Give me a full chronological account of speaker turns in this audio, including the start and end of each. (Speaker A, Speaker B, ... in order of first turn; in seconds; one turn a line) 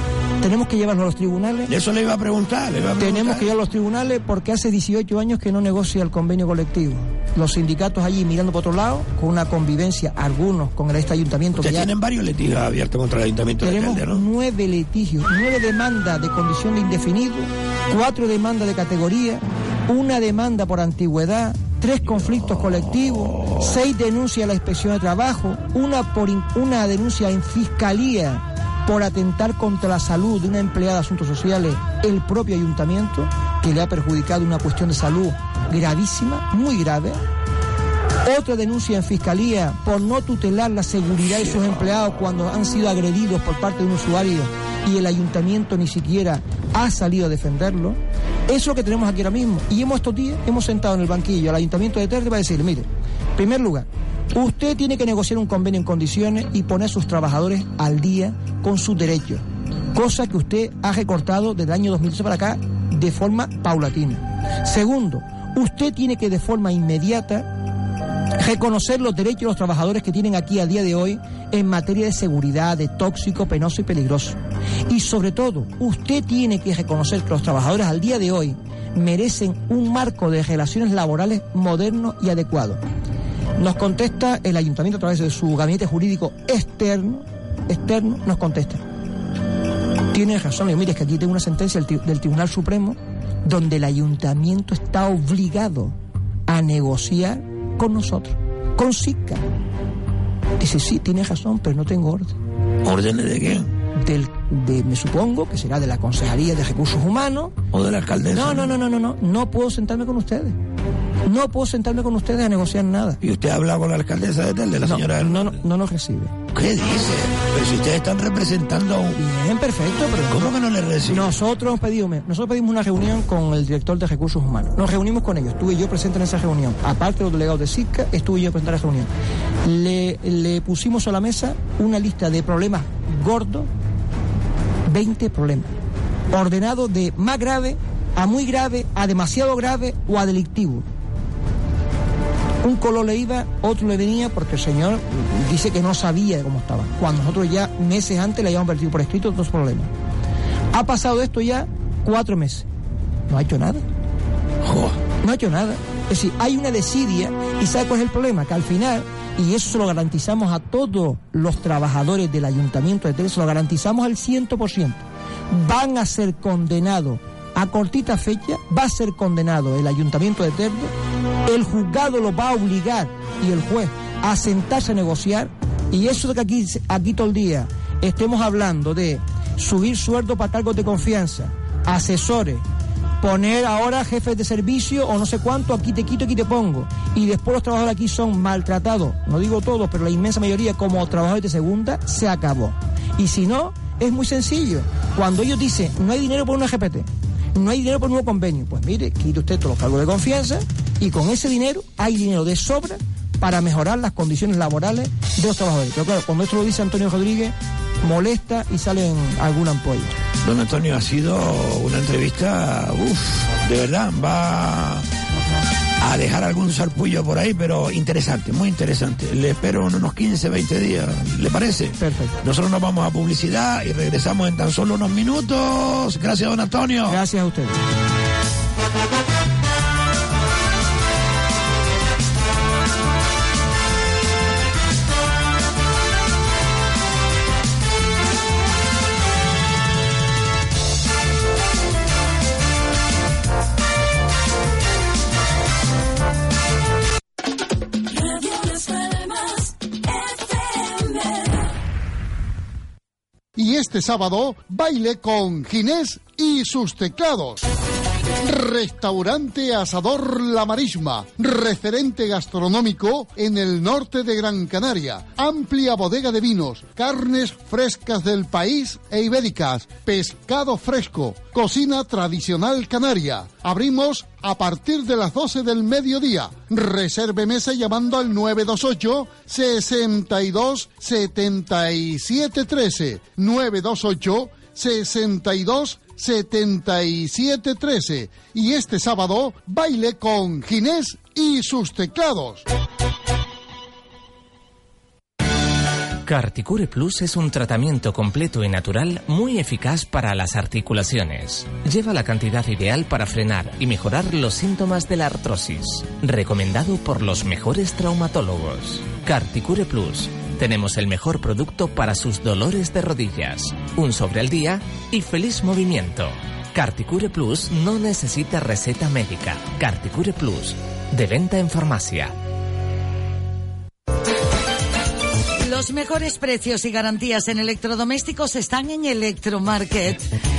Speaker A: 0.4-1.7
Speaker B: 1.7-3.5
Speaker A: 3.0-11.9
Speaker B: 11.6-14.2
Speaker A: 13.6-37.2
Speaker B: 22.1-23.7
Speaker A: 38.2-59.4
Speaker A: 59.9-67.5
Speaker A: 68.4-74.4
Speaker A: 74.9-82.8
Speaker A: 83.6-88.8
Speaker A: 90.1-95.9
Speaker A: 96.5-99.4
Speaker A: 100.6-102.3
Speaker B: 102.8-103.7
Speaker A: 104.0-107.5
Speaker B: 107.7-108.7
Speaker A: 108.3-110.5
Speaker A: 111.2-113.2
Speaker B: 113.2-115.6
Speaker A: 114.8-116.3
Speaker B: 116.5-119.2
Speaker A: 119.2-120.5
Speaker B: 120.3-121.3
Speaker A: 121.1-129.1
Speaker A: 129.6-133.7
Speaker A: 134.9-135.7
Speaker A: 136.3-140.8
Speaker A: 142.6-149.9
Speaker A: 150.7-152.7
Speaker A: 153.3-153.8
Speaker B: 154.6-155.0
Speaker A: 155.2-170.9
Speaker A: 171.4-182.6
Speaker A: 183.2-210.1
Speaker B: 210.4-215.0
Speaker B: 216.0-227.2
Speaker A: 222.0-222.4
Speaker A: 227.1-227.8
Speaker C: 253.6-257.6
Speaker C: 258.4-292.6
Speaker D: 296.2-322.3
Speaker E: 325.6-330.3